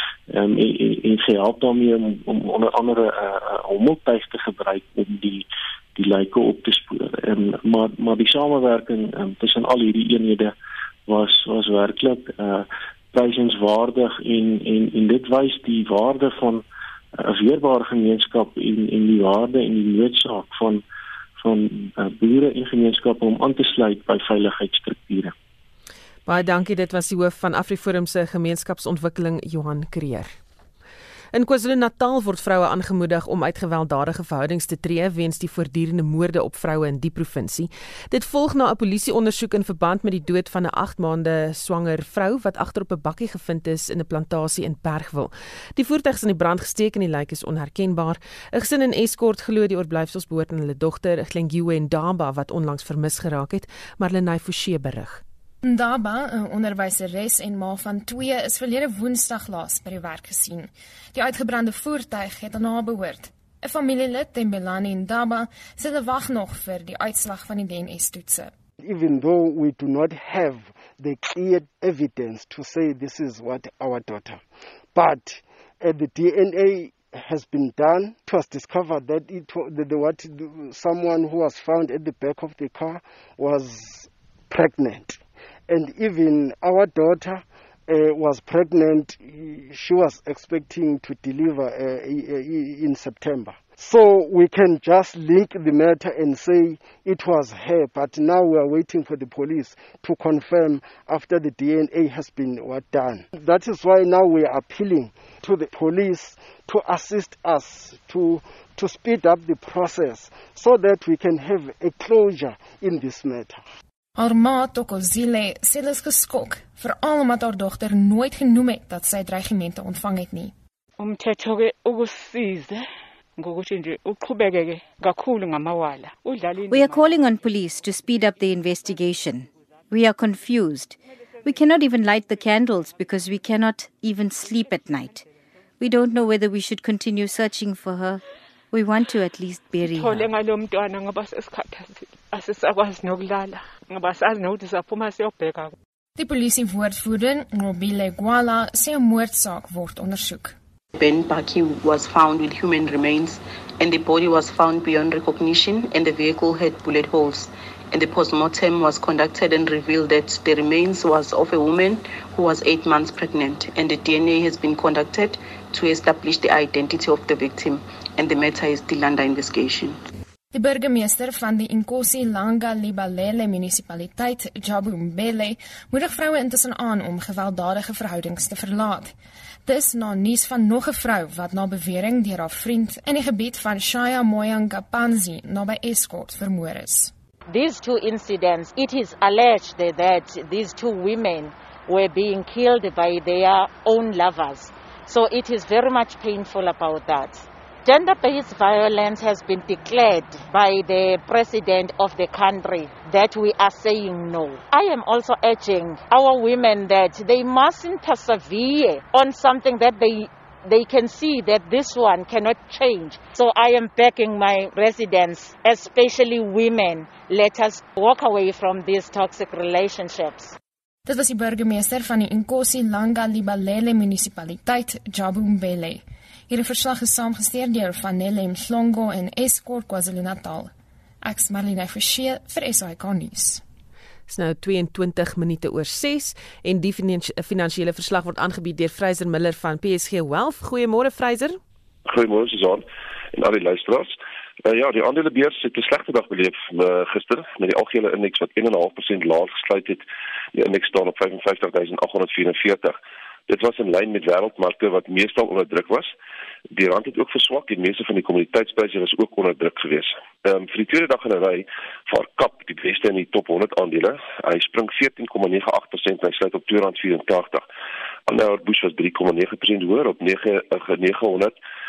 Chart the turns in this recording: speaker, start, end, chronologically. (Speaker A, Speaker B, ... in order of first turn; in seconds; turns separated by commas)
Speaker A: 0.3-10.5, Speaker A: 11.1-16.6, Speaker A: 17.2-20.8, Speaker A: 21.4-25.3, Speaker B: 26.2-30.3, Speaker B: 31.3-55.2, Speaker C: 55.6-68.5, Speaker D: 68.8-74.4, Speaker D: 74.9-113.6, Speaker C: 114.2-120.5, Speaker E: 121.0-122.8, Speaker E: 123.4-127.0, Speaker F: 126.7-135.2, Speaker F: 135.8-138.2, Speaker F: 138.7-140.3, Speaker E: 139.8-145.7, Speaker C: 146.2-150.5, Speaker G: 151.0-169.9, Speaker C: 170.5-179.1, Speaker C: 179.6-187.1, Speaker H: 187.5-220.6, Speaker C: 221.1-230.7, Speaker C: 231.2-233.6, Speaker B: 234.3-241.6, Speaker I: 242.0-252.9, Speaker I: 253.5-256.1, Speaker I: 256.7-267.6, Speaker I: 268.3-271.6